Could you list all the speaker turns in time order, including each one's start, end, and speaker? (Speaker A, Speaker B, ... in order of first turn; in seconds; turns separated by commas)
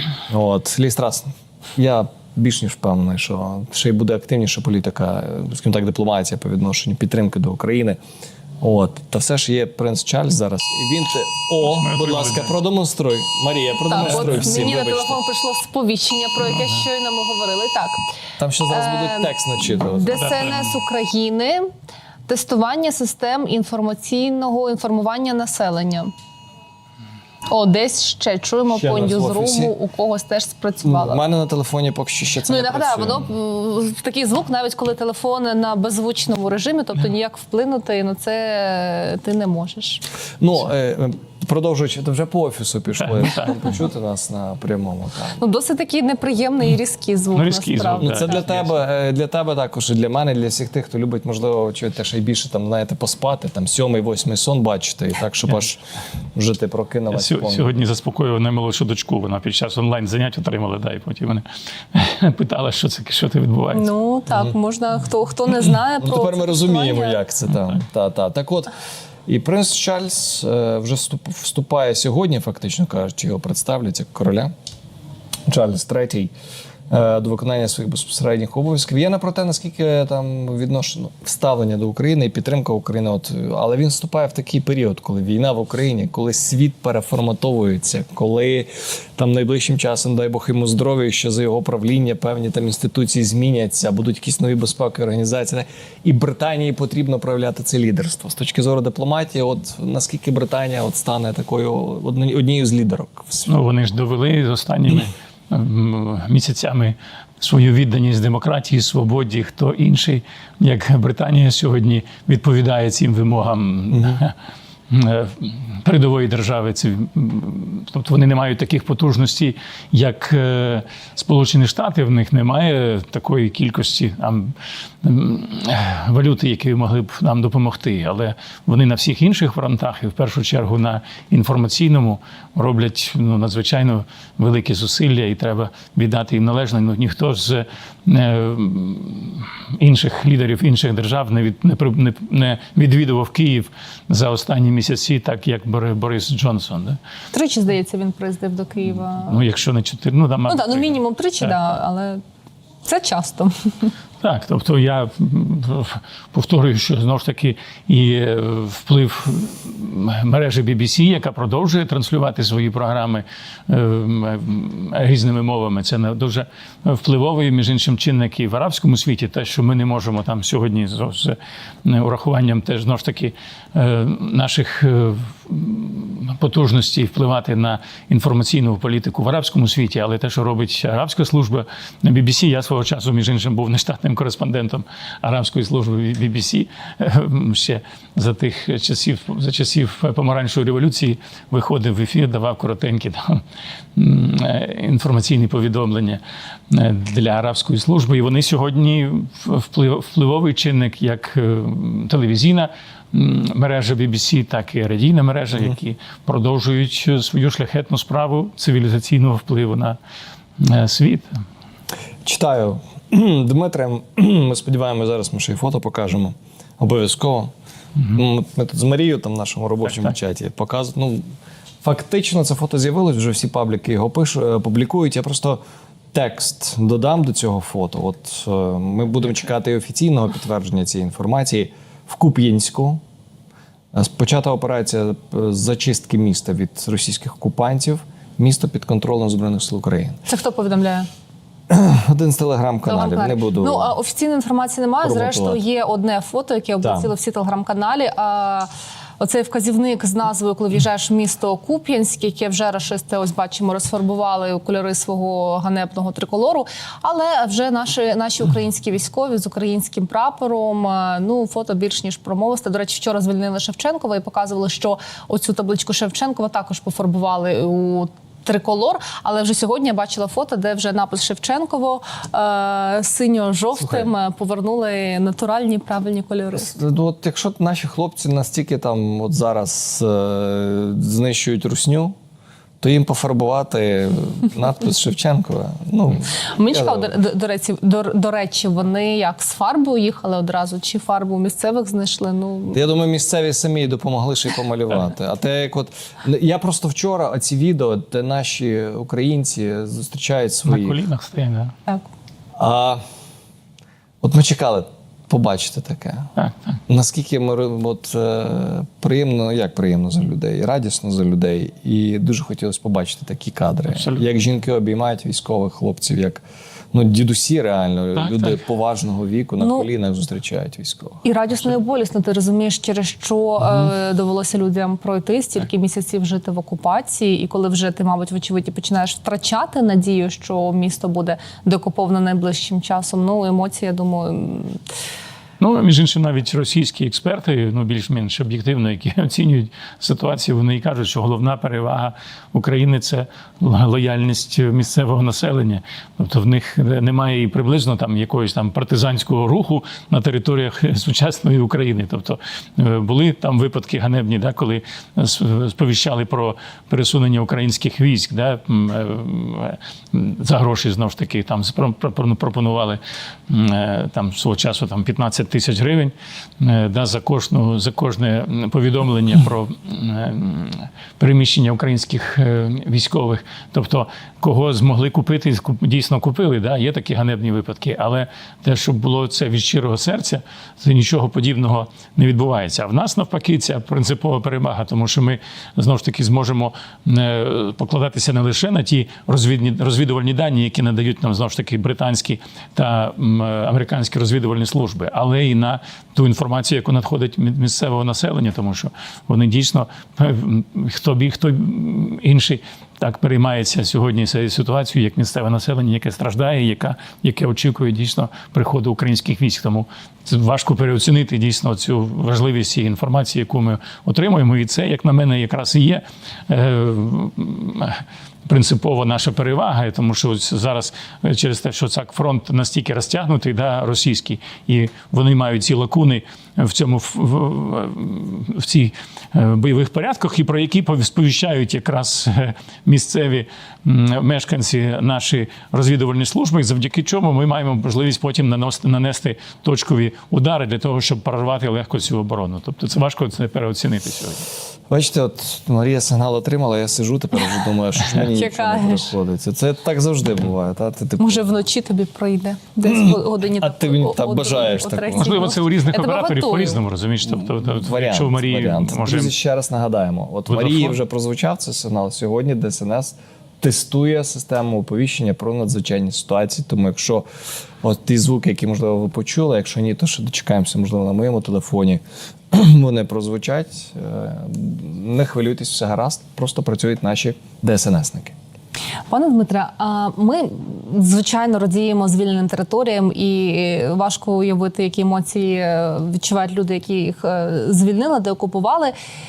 Speaker A: 0.3-8.0, Speaker A: 8.6-15.2, Speaker B: 11.6-12.6, Speaker C: 13.9-18.0, Speaker B: 14.1-14.7, Speaker A: 18.4-20.2, Speaker C: 18.7-21.7, Speaker B: 20.2-20.8, Speaker C: 22.3-26.1, Speaker C: 27.5-31.2, Speaker A: 28.7-29.7, Speaker A: 30.8-33.3, Speaker C: 32.5-40.0, Speaker A: 40.4-45.4, Speaker B: 43.0-43.7, Speaker C: 45.4-48.4, Speaker B: 47.3-48.8, Speaker A: 48.0-55.8, Speaker A: 56.3-57.7, Speaker B: 57.1-63.9, Speaker C: 63.7-67.2, Speaker A: 66.0-68.7, Speaker A: 69.3-74.5, Speaker A: 75.5-76.3, Speaker A: 76.9-103.5, Speaker B: 103.5-114.3, Speaker A: 113.9-114.2, Speaker B: 114.9-147.0, Speaker C: 147.3-149.4, Speaker B: 148.9-151.8, Speaker C: 150.5-152.2, Speaker C: 152.8-153.9, Speaker B: 154.2-193.4, Speaker B: 193.9-210.0, Speaker B: 210.6-211.4, Speaker A: 212.2-217.5, Speaker A: 218.1-221.2, Speaker B: 219.8-220.1, Speaker A: 221.8-225.6, Speaker A: 226.1-233.0, Speaker A: 233.9-240.2, Speaker C: 240.3-241.1, Speaker A: 241.7-243.9, Speaker C: 242.9-248.7, Speaker A: 245.0-245.6, Speaker A: 246.8-247.1, Speaker C: 249.2-276.7, Speaker A: 273.8-274.1, Speaker A: 276.5-282.1, Speaker A: 282.8-287.1, Speaker C: 286.5-292.8, Speaker A: 292.7-301.0, Speaker B: 300.7-301.7, Speaker A: 302.6-303.0, Speaker A: 304.2-306.3, Speaker B: 306.4-306.8, Speaker A: 306.9-321.2, Speaker B: 313.9-314.2, Speaker B: 318.1-318.6, Speaker C: 319.6-319.9, Speaker C: 321.2-334.8, Speaker B: 335.6-444.5, Speaker A: 444.9-451.4, Speaker C: 448.2-449.1, Speaker C: 451.2-456.8, Speaker A: 452.8-455.3, Speaker B: 455.1-459.3, Speaker A: 457.4-467.2, Speaker B: 460.5-461.0, Speaker A: 467.8-478.3, Speaker C: 479.1-488.9